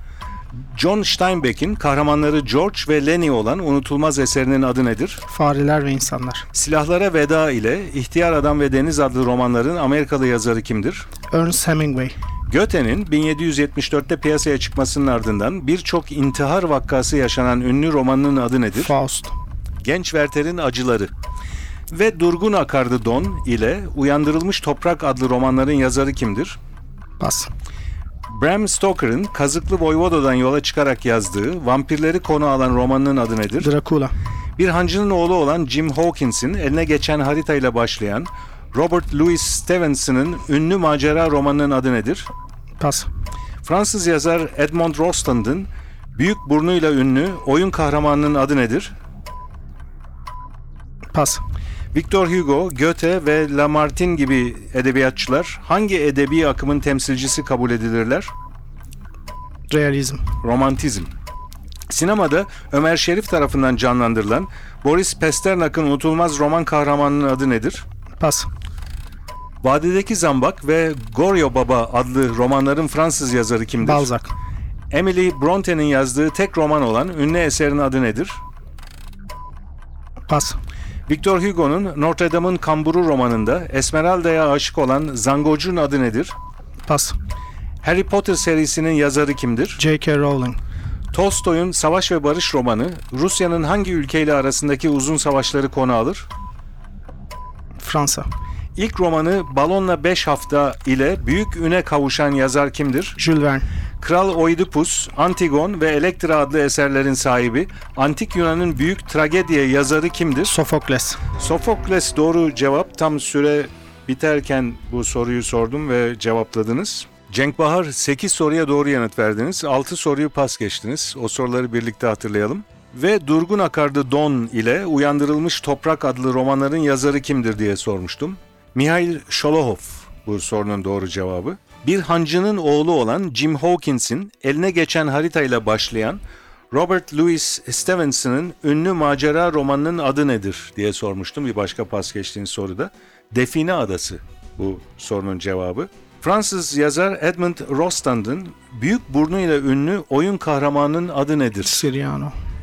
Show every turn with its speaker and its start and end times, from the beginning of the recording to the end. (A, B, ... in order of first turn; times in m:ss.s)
0:00.7-0:05.2 A
0:05.3-0:06.5 B
0:06.5-0:11.1 A
0:11.3-0:12.1 B
0:12.5-0:18.9 A
0:18.8-0:19.3 B
0:19.8-0:21.1 A
0:21.9-0:26.6 A
0:27.2-0:27.5 B
0:28.3-0:33.7 A
0:33.6-0:34.1 B
0:34.6-0:42.3 A
0:42.8-0:43.1 B
0:43.6-0:48.9 A
0:51.1-0:51.4 B
0:51.9-0:58.3 A
0:59.7-1:00.2 B
1:00.4-1:01.1 A
1:01.9-1:07.8 A
1:08.2-1:08.5 B
1:09.6-1:14.1 A
1:13.8-1:14.3 B
1:14.9-1:18.4 A
1:20.3-1:20.6 B
1:21.1-1:26.3 A
1:26.8-1:27.2 B
1:27.8-1:29.8 A
1:29.8-1:30.6 B
1:31.1-1:36.3 A
1:37.8-1:38.3 B
1:38.8-1:43.2 A
1:43.2-1:43.7 B
1:44.0-1:50.5 A
1:50.4-1:51.2 B
1:51.3-2:31.8 A
2:31.6-2:32.3 B